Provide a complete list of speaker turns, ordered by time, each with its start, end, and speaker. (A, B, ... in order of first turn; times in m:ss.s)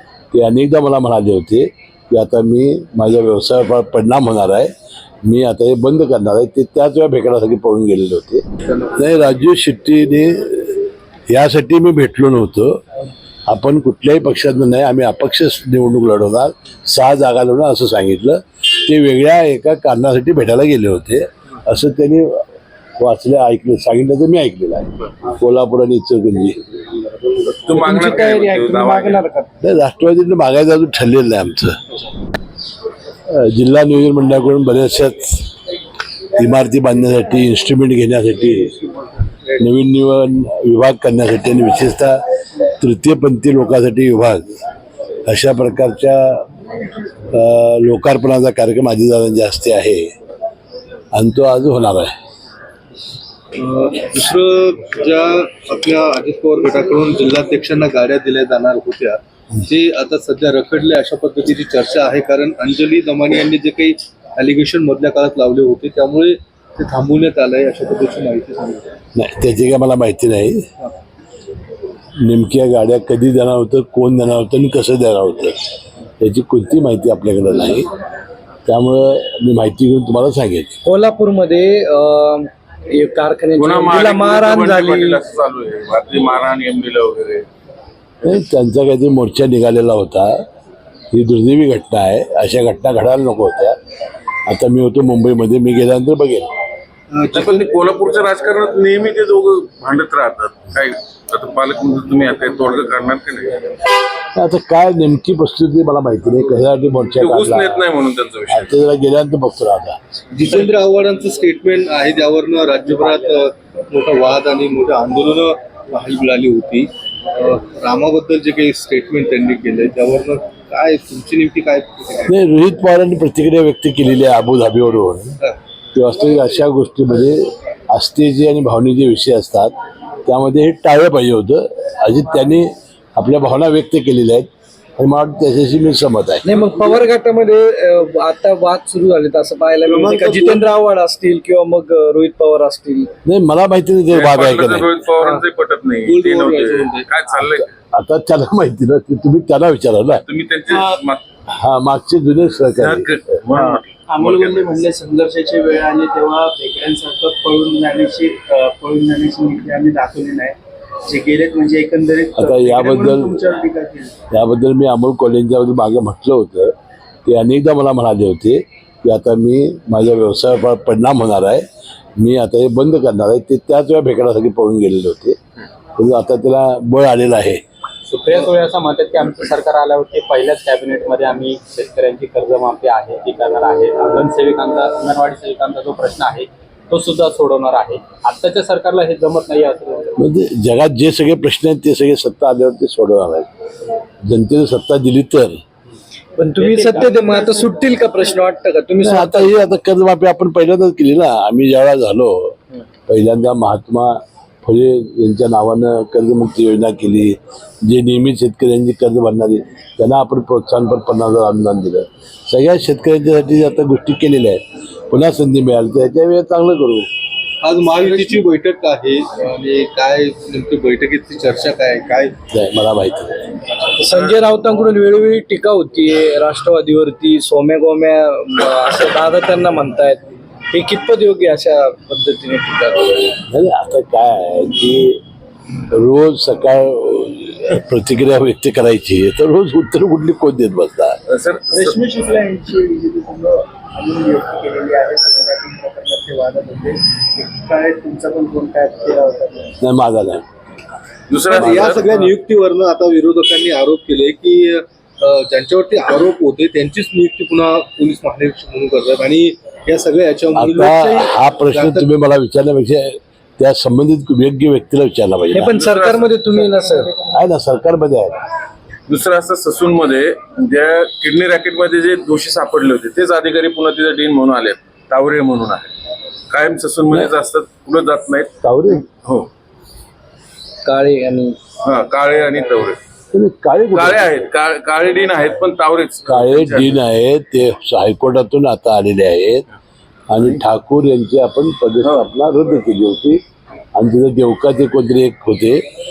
0:00.3-0:04.7 A
0:05.2-0:12.8 A
0:08.7-0:09.3 B
0:13.5-0:22.4 A
0:23.0-0:26.6 A
0:27.5-0:29.2 C
0:27.7-0:29.5 D
0:29.6-0:31.8 A
0:33.3-0:35.5 A
0:36.4-0:38.8 A
0:39.0-0:39.6 B
0:39.6-0:44.5 A
0:45.2-0:46.4 A
0:47.3-0:50.1 A
0:51.1-0:52.1 A
0:53.6-1:09.0 B
1:09.2-1:10.7 A
1:12.2-1:15.6 A
1:16.2-1:17.9 A
1:18.7-1:20.8 A
1:20.8-1:25.2 D
1:23.6-1:27.5 C
1:28.2-1:30.4 A
1:31.1-1:33.8 A
1:34.5-1:36.5 A
1:37.1-1:37.7 B
1:37.3-1:43.7 C
1:44.4-1:47.9 A
1:47.2-1:48.8 C
1:48.5-1:50.0 A
1:50.3-2:02.4 B
2:02.3-2:05.4 A
2:06.0-2:09.7 A
2:10.2-2:16.5 A
2:16.4-2:23.1 D
2:19.8-2:20.6 B
2:23.2-2:24.9 A
2:24.1-2:27.7 C
2:26.1-2:27.1 B
2:27.3-2:30.2 A
2:30.1-2:31.2 C
2:31.5-2:33.2 A
2:32.8-2:34.8 C
2:33.7-2:44.2 E
2:42.4-2:43.4 A
2:44.3-2:51.6 A
2:52.2-2:55.4 A
2:56.0-2:57.6 A
2:58.1-3:10.2 F
3:10.2-3:13.5 A
3:14.2-3:15.6 A
3:16.4-3:19.7 D
3:16.6-3:17.7 F
3:19.0-3:37.1 A
3:37.6-3:42.4 B
3:42.5-3:43.5 A
3:44.0-3:53.3 D
3:53.5-3:55.2 A
3:55.9-4:01.2 A
4:01.3-4:02.0 C
4:01.7-4:09.8 E
4:09.8-4:10.5 A
4:11.3-4:12.2 C
4:11.5-4:12.1 A
4:11.5-4:22.1 B
4:20.6-4:25.7 A
4:25.5-4:27.2 D
4:25.7-4:26.4 C
4:27.2-4:28.4 A
4:29.1-4:35.9 C
4:36.5-4:38.5 C
4:38.6-4:39.1 A
4:39.2-4:39.5 C
4:40.8-4:41.6 D
4:41.8-4:43.0 C
4:43.3-4:44.5 A
4:43.9-4:47.0 C
4:46.3-4:49.7 A
4:50.3-4:53.4 A
4:52.0-4:52.3 C
4:54.0-4:55.8 A